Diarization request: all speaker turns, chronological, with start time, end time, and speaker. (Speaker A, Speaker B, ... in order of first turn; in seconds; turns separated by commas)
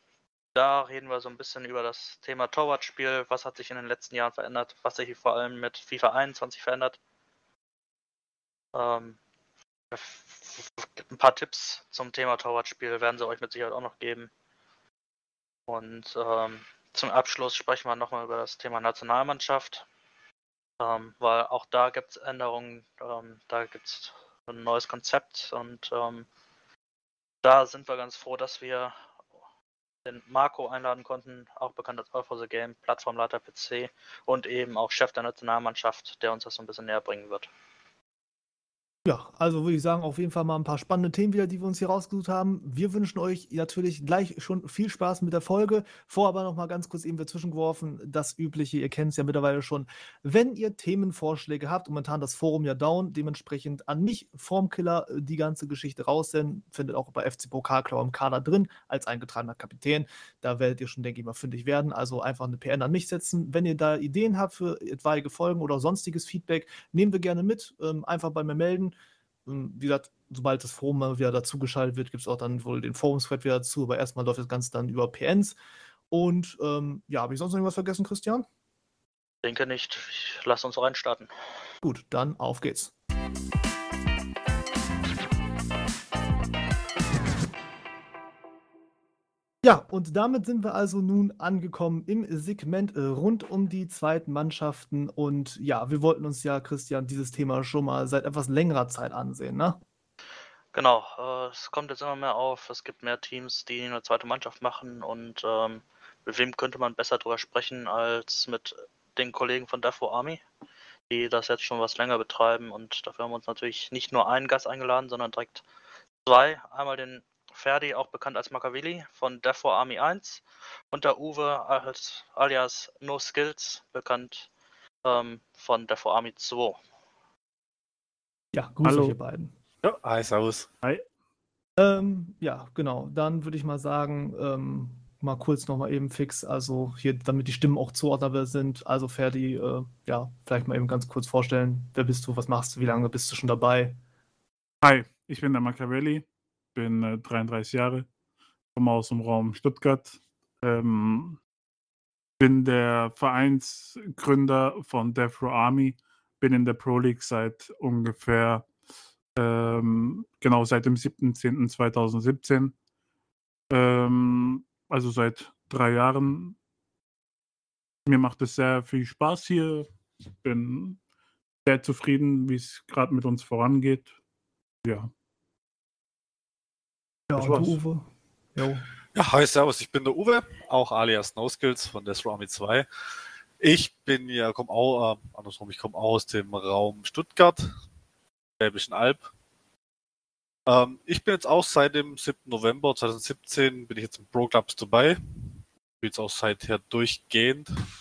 Speaker A: 0.6-7.0, Speaker A: 8.7-9.2, Speaker A: 9.9-14.3, Speaker A: 15.7-19.9, Speaker A: 20.8-26.3, Speaker A: 27.4-28.9, Speaker A: 30.1-37.5, Speaker B: 39.0-69.0, Speaker B: 69.5-75.6, Speaker B: 76.1-78.5, Speaker A: 79.4-81.3, Speaker B: 81.8-82.9, Speaker B: 89.6-99.8, Speaker A: 100.7-110.4, Speaker A: 111.1-115.6, Speaker A: 116.3-124.5, Speaker A: 125.0-126.8, Speaker B: 128.5-129.5, Speaker C: 128.8-129.2, Speaker D: 129.8-130.7, Speaker B: 131.8-144.0, Speaker C: 144.8-148.1, Speaker C: 148.8-151.4, Speaker C: 152.4-158.7, Speaker C: 159.4-162.7, Speaker C: 163.7-166.6, Speaker C: 168.1-169.9, Speaker C: 170.4-171.0, Speaker C: 171.7-174.1, Speaker C: 174.8-175.1, Speaker B: 177.3-178.8, Speaker C: 177.4-177.8, Speaker D: 179.2-182.9, Speaker D: 183.6-187.7, Speaker D: 188.6-189.3, Speaker D: 190.7-197.7